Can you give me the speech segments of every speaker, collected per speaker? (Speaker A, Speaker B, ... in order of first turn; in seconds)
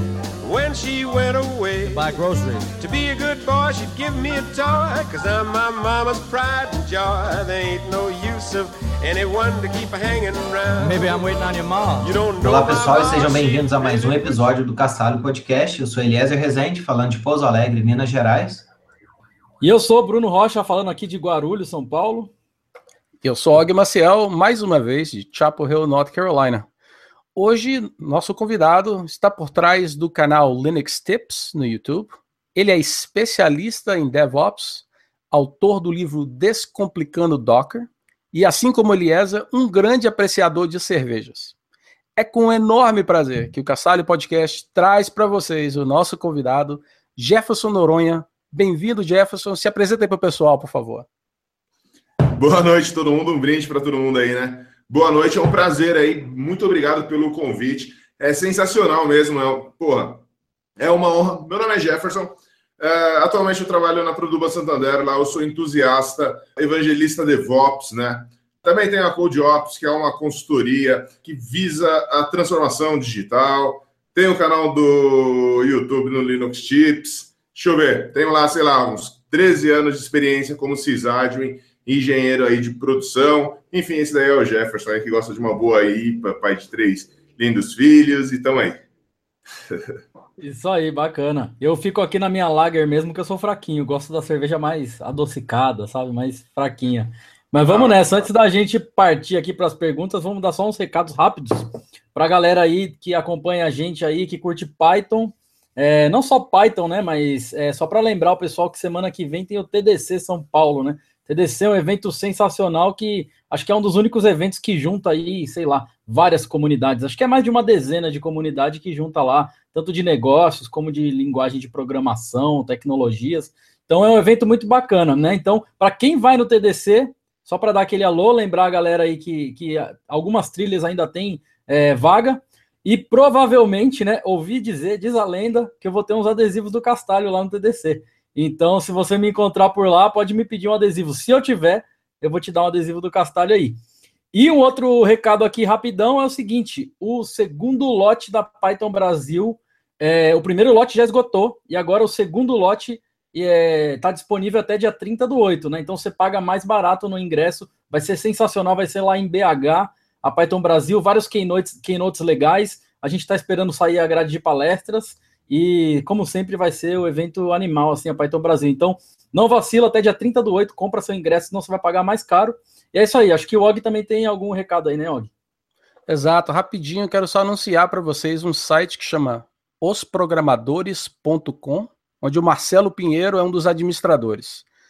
Speaker A: 0.4-2.2, 2.8-11.3, 12.0-14.6
Speaker B: 1.8-2.7, 10.8-12.2
Speaker C: 12.4-18.7
Speaker D: 19.6-22.3, 90.4-143.8, 144.3-175.3
Speaker E: 23.2-26.7, 27.4-41.5, 42.1-51.0, 176.1-184.6
Speaker F: 52.3-60.2, 60.8-88.8, 97.7-98.0